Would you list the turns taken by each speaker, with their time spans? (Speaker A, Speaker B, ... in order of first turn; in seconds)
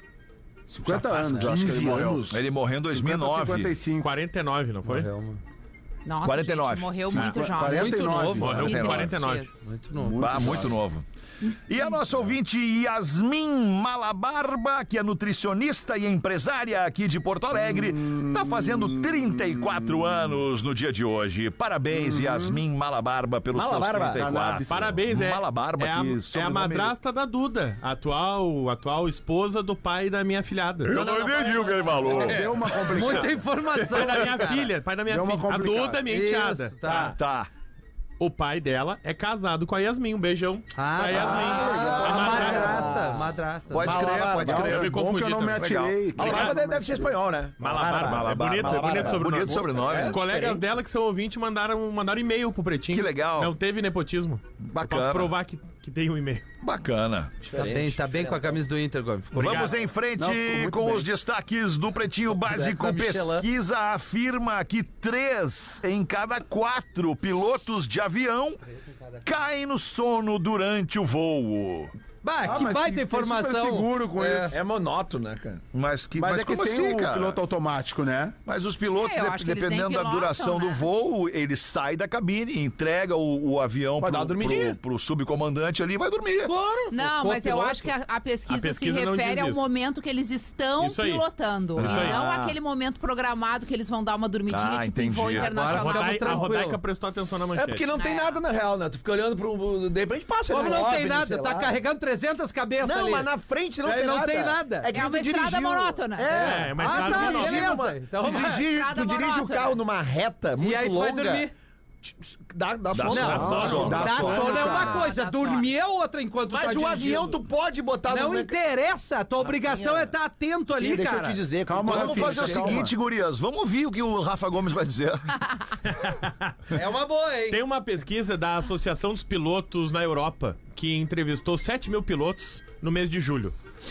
Speaker A: 0.7-2.4, 2.9-4.1, 7.1-9.1, 9.9-10.8, 17.6-19.5, 21.9-22.6, 24.1-24.9, 32.0-33.5, 35.1-36.0, 41.2-43.0, 44.4-47.2, 60.2-61.1, 72.5-74.6, 76.2-78.3, 113.3-114.9, 121.7-122.9
Speaker B: 0.9-2.4, 23.5-24.2, 31.0-31.9, 36.9-37.1, 41.1-44.9, 46.2-50.6, 57.4-58.6, 74.5-75.6, 84.0-84.8, 97.6-101.7, 102.8-111.5, 112.0-115.0, 116.5-118.6, 119.4-120.1, 120.8-122.9
Speaker C: 1.4-1.7, 2.3-3.8, 6.2-7.2, 8.6-9.2, 10.2-11.1, 11.7-26.9, 30.8-33.2, 33.8-34.3, 36.9-37.5, 41.2-42.4, 43.7-45.0, 45.6-46.5, 47.7-50.2, 52.9-53.6, 54.6-55.3, 56.6-57.4, 59.3-68.6, 69.2-72.0, 75.7-77.4, 78.5-86.5, 91.8-92.6, 94.5-95.5, 112.9-114.7, 121.9-125.3
Speaker D: 4.0-5.1, 8.4-9.7, 24.7-31.1, 33.8-36.8, 38.2-42.9, 44.5-46.5, 47.6-56.5, 59.4-59.8, 88.5-89.7, 90.8-91.3, 91.8-92.2, 95.6-97.9, 106.3-107.8, 113.2-114.0, 125.9-126.6, 127.5-133.6
Speaker E: 4.8-5.4, 7.6-8.9, 9.6-10.7, 32.8-34.6, 36.1-37.2, 40.8-44.1, 57.5-59.6, 62.3-63.5, 72.2-74.6, 86.5-87.9, 95.4-96.8, 100.5-103.3, 103.8-104.9, 106.3-108.7, 110.6-111.5, 113.1-117.4, 118.1-121.4, 126.7-127.6
Speaker F: 6.1-9.7, 79.0-80.8, 86.9-96.5, 97.9-98.4, 100.5-101.0, 104.9-106.5, 108.3-109.8, 114.3-115.7